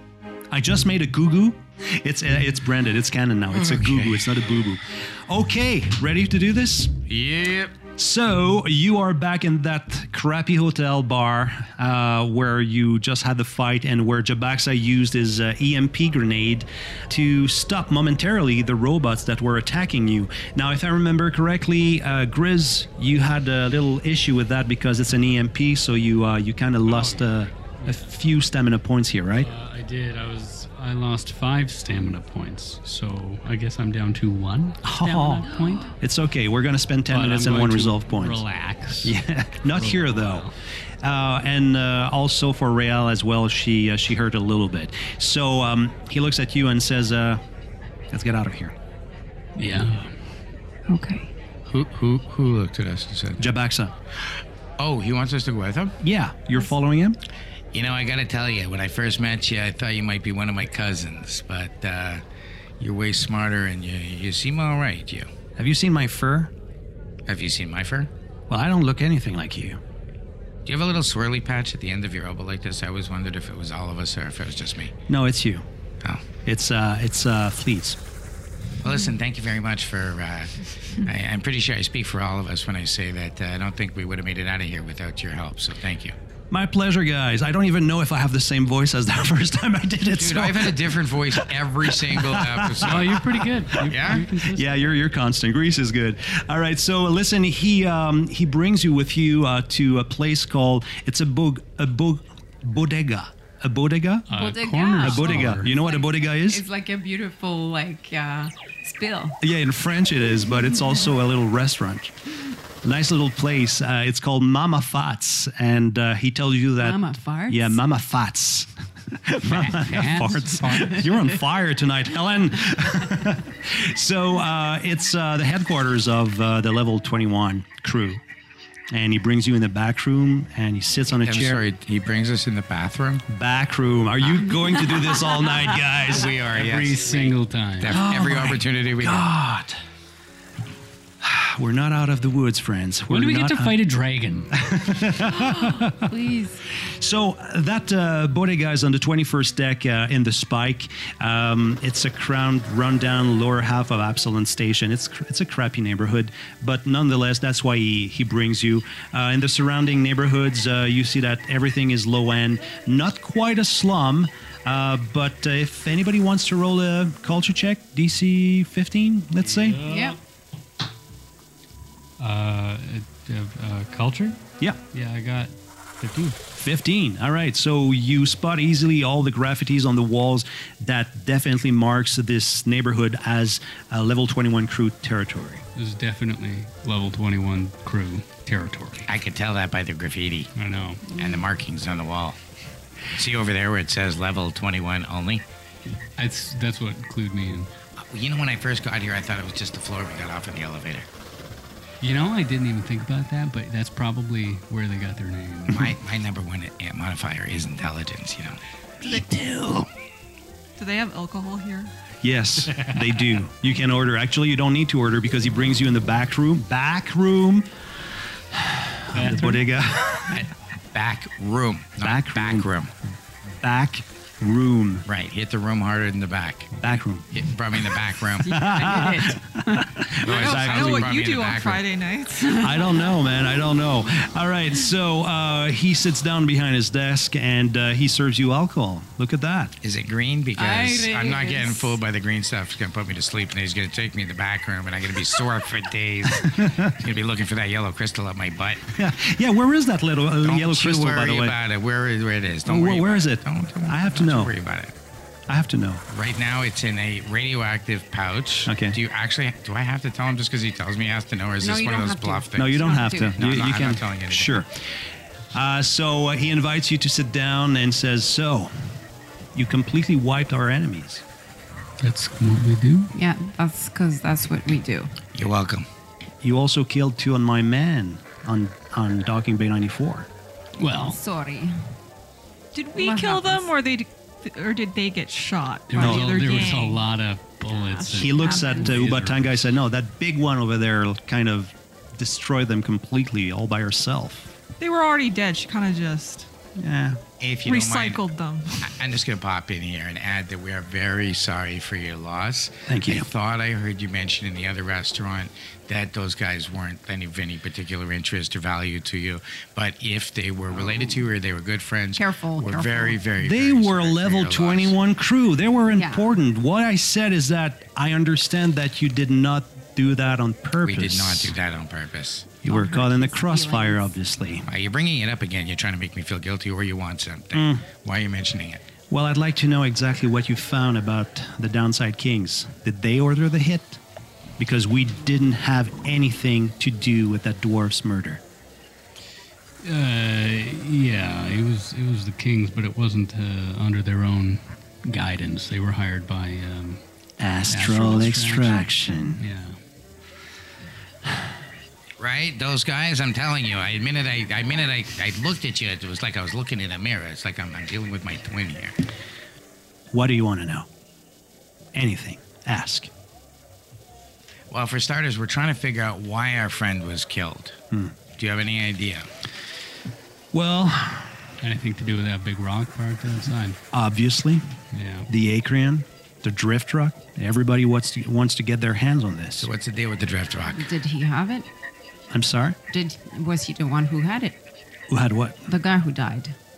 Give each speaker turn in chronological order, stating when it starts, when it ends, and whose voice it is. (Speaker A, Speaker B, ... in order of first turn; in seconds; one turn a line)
Speaker A: 0.5-7.0
Speaker B: 3.5-4.3
Speaker B: 7.1-7.7
Speaker A: 8.0-29.5
Speaker C: 26.9-28.0
Speaker C: 29.4-35.9
Speaker A: 34.8-38.4
Speaker C: 37.1-39.1
Speaker A: 39.0-40.5
Speaker C: 39.7-40.5
Speaker A: 41.0-47.4
Speaker A: 48.1-48.8
Speaker C: 49.6-50.1
Speaker D: 50.9-51.3
Speaker B: 51.7-53.4
Speaker A: 53.4-53.9
Speaker B: 54.8-56.0
Speaker A: 56.0-57.2
Speaker B: 57.7-62.2
Speaker B: 62.8-65.3
Speaker A: 65.6-66.5
Speaker B: 67.3-68.1
Speaker A: 68.5-69.8
Speaker B: 70.7-74.9
Speaker A: 75.1-75.6
Speaker A: 76.5-78.0
Speaker B: 78.8-86.2
Speaker A: 86.5-104.3
Speaker B: 90.1-93.2
Speaker C: 92.8-94.9
Speaker B: 93.8-94.3
Speaker C: 104.3-105.7
Speaker D: 104.3-109.4
Speaker A: 105.0-106.6
Speaker A: 109.4-112.2
Speaker A: 112.8-118.7
Speaker D: 116.8-117.8
Speaker A: 119.2-128.2
Speaker C: 119.5-121.2
Speaker A: 128.9-131.6
Speaker B: 131.2-133.2
Speaker A: 133.3-136.3
Speaker B: 136.1-139.3
Speaker C: 136.4-138.1
Speaker A: 137.9-139.8
Speaker A: 141.2-143.8
Speaker C: 143.1-144.5
Speaker A: 144.5-146.1
Speaker D: 145.2-146.6
Speaker A: 147.0-169.8
Speaker C: 169.5-170.2
Speaker D: 169.9-170.2
Speaker C: 172.2-176.4
Speaker A: 176.6-185.6
Speaker C: 185.8-189.1
Speaker B: 189.1-190.5
Speaker C: 190.6-191.2
Speaker B: 191.1-192.4
Speaker B: 193.1-195.4
Speaker C: 196.2-197.7
Speaker B: 198.1-201.1
Speaker C: 202.0-206.0
Speaker B: 205.7-208.6
Speaker A: 209.0-209.9
Speaker E: 210.8-211.9
Speaker A: 212.2-217.7
Speaker C: 212.7-213.1
Speaker A: 218.5-220.3
Speaker C: 219.1-219.6
Speaker B: 220.3-222.9
Speaker A: 222.0-222.7
Speaker A: 223.6-225.1
Speaker B: 225.1-226.8
Speaker A: 226.8-227.4
Speaker B: 227.3-228.5
Speaker A: 227.9-231.1
Speaker D: 228.4-229.8
Speaker B: 230.2-231.8
Speaker E: 230.3-233.0
Speaker A: 232.5-239.8
Speaker D: 232.6-233.0
Speaker B: 239.8-248.8
Speaker D: 240.6-242.0
Speaker A: 246.4-246.9
Speaker A: 249.0-251.5
Speaker B: 250.4-254.9
Speaker A: 252.7-254.5
Speaker A: 255.5-256.0
Speaker B: 256.1-264.6
Speaker A: 258.7-259.0
Speaker D: 261.6-263.5
Speaker A: 262.6-264.7
Speaker A: 265.5-268.7
Speaker A: 269.6-271.2
Speaker C: 272.0-273.1
Speaker D: 273.1-275.1
Speaker B: 275.4-275.9
Speaker A: 276.4-280.3
Speaker C: 280.8-281.2
Speaker D: 281.0-281.7
Speaker E: 282.7-287.0
Speaker D: 283.0-283.7
Speaker C: 285.9-289.6
Speaker A: 286.0-286.4
Speaker D: 287.7-288.9
Speaker A: 288.1-294.5
Speaker E: 294.8-296.5
Speaker A: 296.8-297.2
Speaker B: 297.4-298.2
Speaker E: 297.6-298.9
Speaker B: 298.8-314.9
Speaker A: 302.9-303.3
Speaker D: 312.2-313.2
Speaker A: 313.4-321.5
Speaker D: 315.9-316.3
Speaker B: 320.8-322.5
Speaker A: 322.6-324.7
Speaker D: 322.7-324.1
Speaker B: 324.7-328.8
Speaker A: 327.5-327.8
Speaker A: 329.1-334.0
Speaker A: 334.6-338.4
Speaker C: 339.8-347.0
Speaker A: 347.4-349.4
Speaker C: 347.7-349.8
Speaker B: 352.2-359.0
Speaker A: 360.1-360.9
Speaker A: 361.9-363.1
Speaker B: 364.7-367.8
Speaker B: 368.4-369.3
Speaker A: 370.5-371.4
Speaker C: 371.6-373.8
Speaker A: 373.9-374.6
Speaker C: 374.9-375.3
Speaker A: 375.3-379.7
Speaker B: 379.6-380.9
Speaker D: 380.7-381.7
Speaker A: 382.3-382.8
Speaker D: 382.9-384.6
Speaker A: 385.1-385.6
Speaker D: 385.7-386.5